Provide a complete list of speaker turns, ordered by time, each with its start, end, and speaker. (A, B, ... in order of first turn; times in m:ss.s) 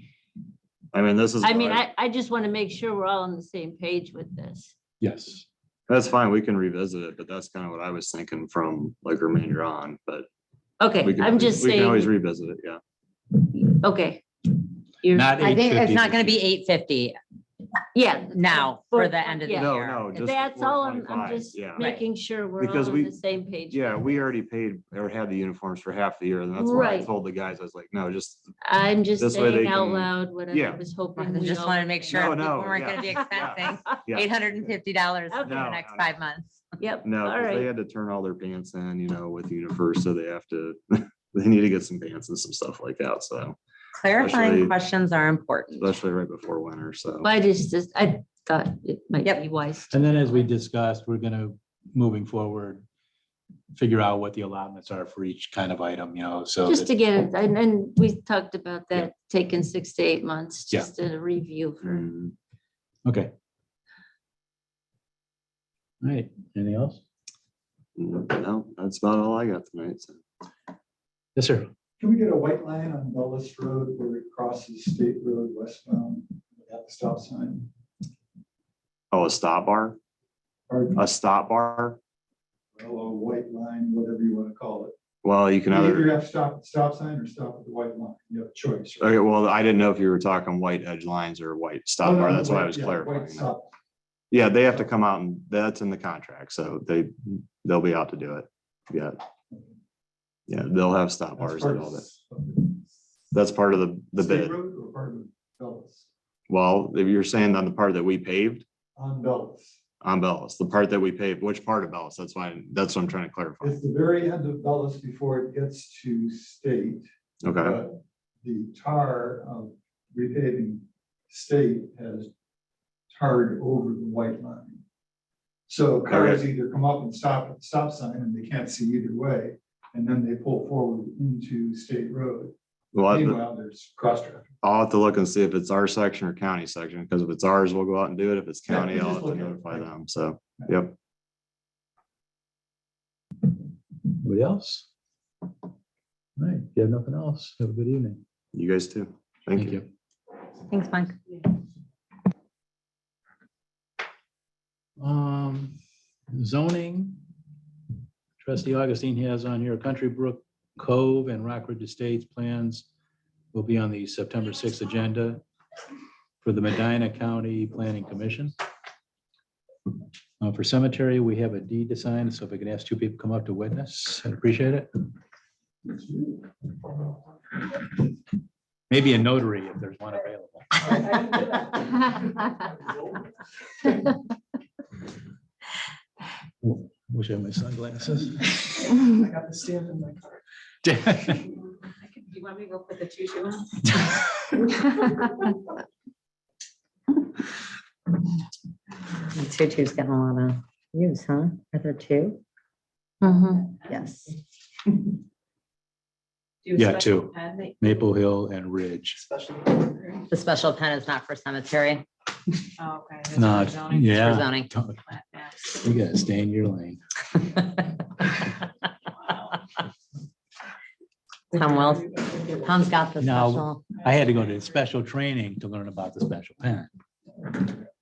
0:00.9-0:01.8 A
0:01.4-0:04.7 B
0:05.0-0:05.5 C
0:05.9-0:10.3 A
0:10.8-0:12.1 B
0:11.0-0:12.8 A
0:13.4-0:14.2 B
0:15.0-0:15.4 B
0:15.1-0:16.4 C
0:15.4-0:17.2 D
0:17.9-0:24.0 B
0:18.3-0:20.2 D
0:19.6-0:21.9 A
0:22.6-0:23.1 A
0:23.7-0:28.5 A
0:26.6-0:27.1 B
0:28.6-0:33.8 B
0:29.2-0:30.8 A
0:31.2-0:36.6 D
0:32.1-0:34.4 A
0:35.3-0:35.6 B
0:35.4-0:36.2 A
0:36.8-0:37.7 B
0:37.0-0:43.6 A
0:44.0-0:45.9 D
0:44.1-0:44.8 A
0:45.8-0:47.3 A
0:47.2-0:50.4 B
0:49.9-0:52.8 C
0:53.7-0:56.9 C
0:56.6-1:02.1 B
1:01.8-1:02.3 A
1:03.0-1:03.3 C
1:06.0-1:07.0 C
1:08.0-1:10.2 A
1:11.4-1:11.7 C
1:12.0-1:17.7 E
1:19.1-1:20.0 A
1:20.7-1:21.0 E
1:21.0-1:22.0 A
1:22.7-1:24.9 E
1:25.2-1:26.1 A
1:25.7-1:29.1 E
1:29.0-1:33.4 A
1:32.0-1:33.7 E
1:34.3-1:39.2 A
1:40.5-1:42.0 A
1:41.4-1:42.8 E
1:43.3-1:44.5 A
1:44.2-1:46.1 E
1:46.5-1:48.6 A
1:49.0-1:49.8 E
1:50.0-1:53.8 A
1:53.6-2:02.3 E
1:57.4-1:57.8 A
2:03.1-2:04.8 E
2:05.7-2:14.5 E
2:06.1-2:06.4 A
2:12.9-2:13.4 A
2:14.6-2:20.9 A
2:18.7-2:19.9 E
2:24.2-2:24.9 C
2:26.4-2:28.2 C
2:28.5-2:29.8 A
2:29.5-2:29.8 C
2:30.7-2:31.2 D
2:35.0-2:35.8 C
2:36.3-2:37.2 C
2:38.4-2:42.9 C
2:43.5-2:45.4 C
2:46.4-2:48.6 C
2:50.4-2:54.9 C
2:58.9-3:00.8 C
3:06.6-3:08.9 C
3:09.4-3:10.2 E
3:10.8-3:11.4 C
3:12.1-3:13.7 F
3:19.3-3:22.4 D
3:23.2-3:23.6 B
3:23.9-3:24.3 D
3:26.7-3:27.8 F
3:26.7-3:29.2 C
3:29.4-3:29.9 F
3:30.3-3:32.0 D
3:32.8-3:34.2 F
3:33.3-3:35.0 C
3:34.2-3:34.7 D
3:35.2-3:35.6 F
3:35.7-3:37.0 C
3:41.5-3:42.1 D
3:42.6-3:43.8 D
3:43.2-3:46.9 C